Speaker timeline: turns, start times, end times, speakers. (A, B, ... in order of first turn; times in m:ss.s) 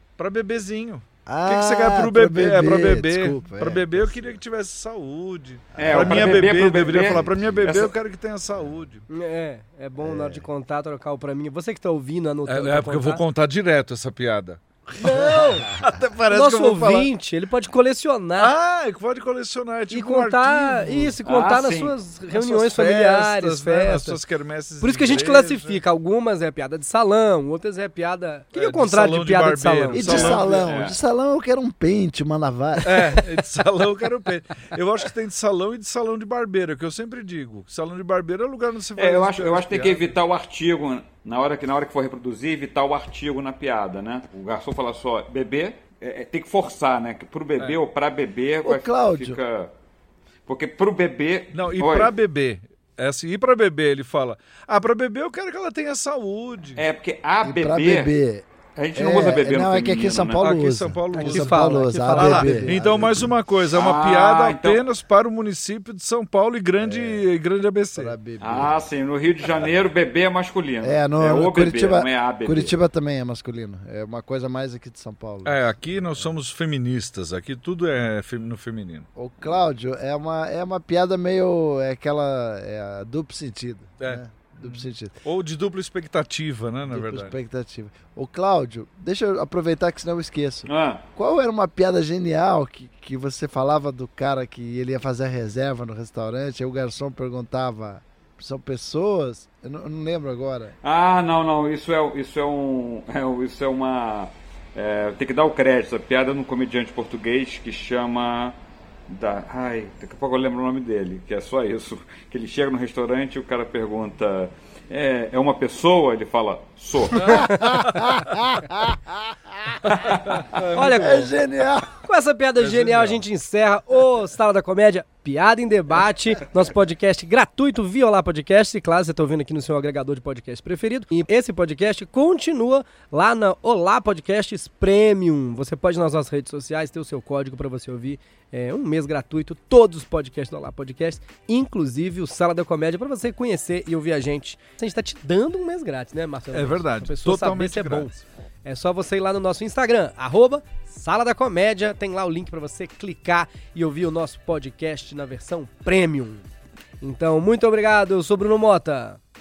0:00.2-0:09.0 A
0:01.2-0:04.4 B
0:05.8-0:06.3 B
0:05.8-0:07.9 C
0:09.1-0:13.2 D
0:10.0-0:10.4 B
0:12.5-0:17.1 A
0:15.0-0:15.7 D
0:15.3-0:15.6 B
0:16.3-0:18.5 D
0:18.4-0:21.2 A
0:19.9-0:24.2 D
0:21.2-0:22.0 C
0:22.3-0:25.8 A
0:24.8-0:30.4 D
0:28.5-0:30.6 A
0:29.9-0:33.0 B
0:30.5-0:31.0 C
0:32.8-0:40.1 A
0:39.0-0:49.7 C
0:48.6-0:49.4 B
0:50.5-0:52.1 C
0:51.5-0:56.8 A
0:56.8-0:58.1 C
0:57.4-1:03.3 B
0:58.8-1:00.4 C
1:00.4-1:08.1 A
1:01.1-1:02.8 D
1:03.7-1:04.8 C
1:06.8-1:07.2 B
1:08.0-1:08.9 B
1:08.4-1:12.8 C
1:10.8-1:15.6 B
1:15.4-1:19.6 A
1:19.2-1:25.2 B
1:24.0-1:27.4 A
1:26.9-1:40.7 B
1:30.6-1:31.0 C
1:40.8-1:48.6 C
1:49.1-1:57.4 C
1:57.2-1:58.2 A
1:57.3-1:59.2 B
2:00.0-2:01.3 A
2:00.7-2:01.3 D
2:00.9-2:01.9 B
2:02.0-2:36.5 D
2:02.6-2:03.2 A
2:26.5-2:28.1 A
2:37.0-2:39.2 D